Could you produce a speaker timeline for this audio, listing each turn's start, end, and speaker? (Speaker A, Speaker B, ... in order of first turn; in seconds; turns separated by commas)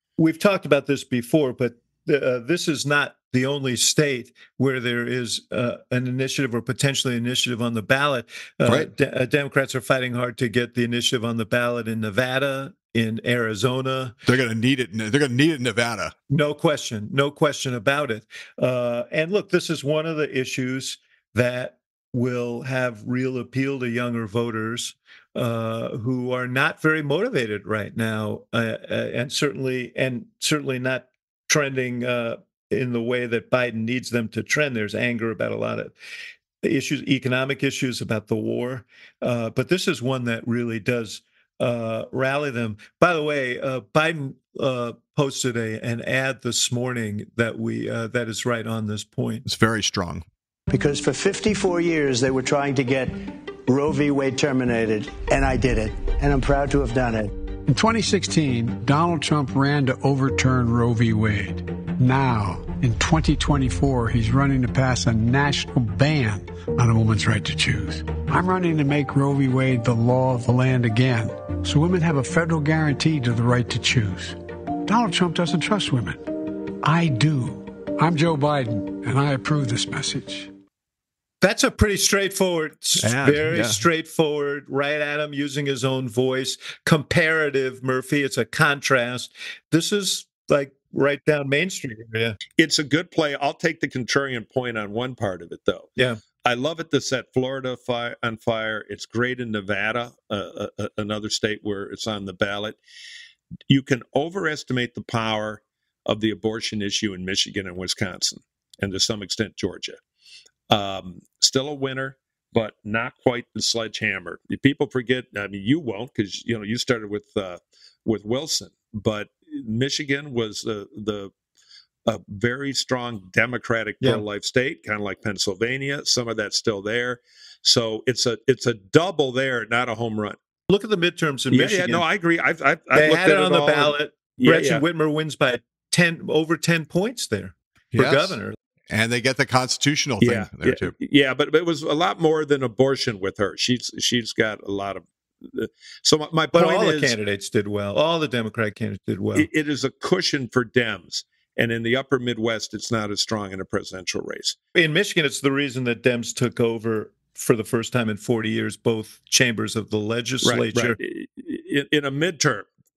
Speaker A: 0.2-14.1, Speaker B: 14.2-16.1, Speaker A: 16.3-35.9, Speaker A: 36.6-49.4, Speaker B: 49.4-50.2, Speaker C: 50.7-57.3, Speaker D: 57.7-76.3, Speaker D: 76.8-80.5, Speaker A: 81.4-92.4, Speaker B: 83.0-83.8, Speaker E: 92.6-95.9, Speaker E: 96.4-102.8, Speaker E: 103.7-110.0, Speaker E: 110.7-121.3, Speaker E: 122.1-130.4, Speaker A: 130.7-132.0, Speaker E: 131.5-134.8, Speaker A: 132.9-138.6, Speaker B: 137.9-138.4, Speaker B: 138.9-140.9, Speaker E: 140.2-147.1, Speaker A: 146.5-149.5, Speaker E: 149.3-154.6, Speaker A: 154.7-161.0, Speaker E: 160.4-162.7